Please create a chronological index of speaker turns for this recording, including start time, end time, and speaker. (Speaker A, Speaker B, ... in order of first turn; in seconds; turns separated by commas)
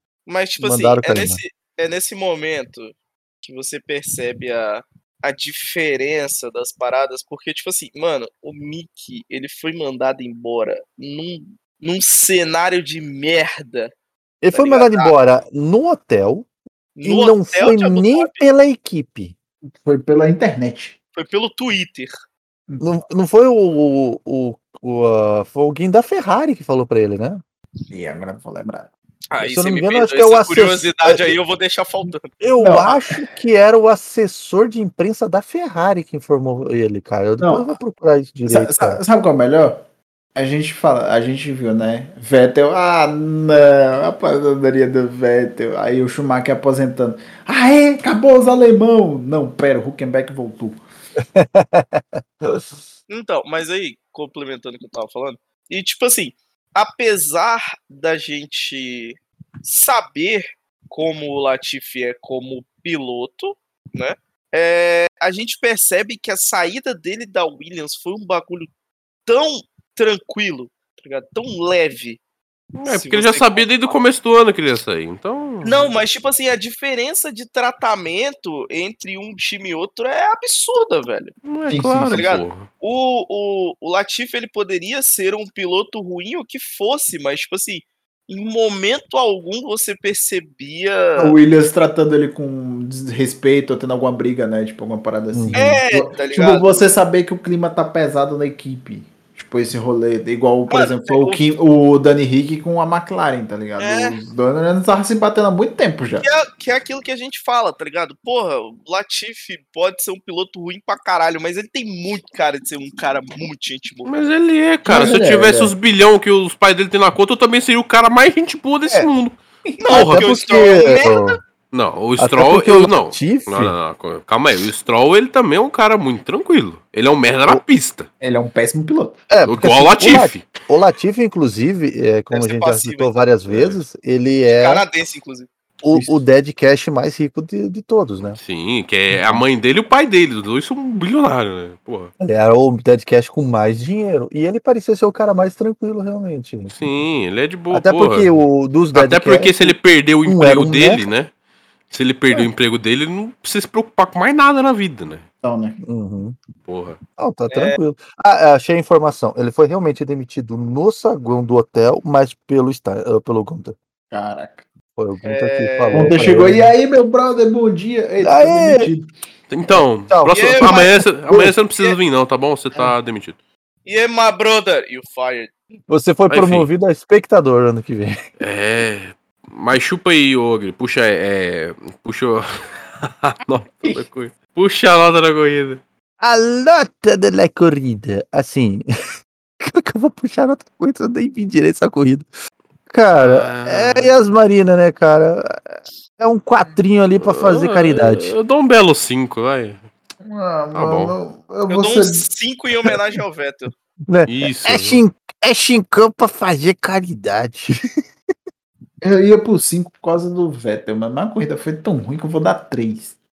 Speaker A: 0.3-13.9, Speaker B: 0.6-1.4, Speaker B: 14.4-16.5, Speaker A: 14.5-15.1, Speaker A: 16.9-18.4, Speaker B: 17.0-19.3, Speaker C: 19.8-21.0, Speaker A: 21.1-22.1, Speaker B: 22.8-27.4, Speaker C: 27.9-28.9, Speaker A: 29.3-32.3, Speaker B: 29.4-31.3, Speaker B: 32.4-39.0, Speaker C: 32.6-33.1, Speaker C: 37.4-37.7, Speaker C: 38.5-39.8, Speaker C: 40.3-50.8, Speaker B: 51.2-52.8, Speaker A: 53.1-68.7, Speaker A: 69.2-72.2, Speaker D: 72.8-76.0, Speaker A: 72.8-73.7, Speaker A: 75.6-81.3, Speaker D: 81.4-82.7, Speaker C: 81.7-82.2, Speaker A: 82.1-91.3, Speaker C: 91.2-106.3, Speaker B: 95.3-95.8, Speaker A: 95.5-96.9, Speaker A: 100.7-101.4, Speaker A: 103.8-104.2, Speaker A: 106.2-114.2, Speaker D: 114.1-119.4, Speaker C: 114.8-115.7, Speaker A: 119.8-121.4, Speaker D: 119.9-120.2, Speaker B: 119.9-121.4, Speaker D: 121.7-128.1, Speaker B: 122.2-123.7, Speaker C: 128.2-129.2, Speaker B: 129.3-134.8, Speaker D: 129.4-130.5, Speaker A: 132.3-133.1, Speaker D: 133.5-133.8, Speaker A: 134.5-135.5, Speaker B: 135.8-138.4, Speaker C: 135.9-136.2, Speaker D: 138.4-142.1, Speaker B: 139.1-139.4, Speaker B: 142.2-146.7, Speaker D: 146.7-148.3, Speaker B: 147.7-151.1, Speaker D: 148.9-151.3, Speaker D: 151.9-155.2, Speaker C: 155.4-155.8, Speaker B: 155.8-156.3, Speaker D: 156.6-157.0, Speaker B: 157.2-163.8, Speaker A: 157.5-157.8, Speaker C: 164.1-164.7, Speaker B: 165.0-166.7, Speaker A: 165.2-166.2, Speaker C: 165.9-169.1, Speaker B: 168.2-168.9, Speaker D: 169.5-173.4, Speaker B: 169.7-171.6, Speaker A: 170.3-170.9, Speaker A: 173.8-175.5, Speaker B: 175.9-178.2, Speaker D: 176.3-176.7, Speaker D: 178.4-182.4, Speaker D: 183.0-185.8, Speaker B: 186.2-188.8, Speaker B: 189.6-192.3, Speaker B: 192.9-198.3, Speaker D: 193.2-194.1, Speaker D: 197.2-199.9, Speaker C: 200.2-202.2, Speaker D: 200.7-201.1, Speaker A: 201.7-203.7, Speaker B: 204.1-207.8, Speaker D: 204.2-205.0, Speaker C: 209.0-213.1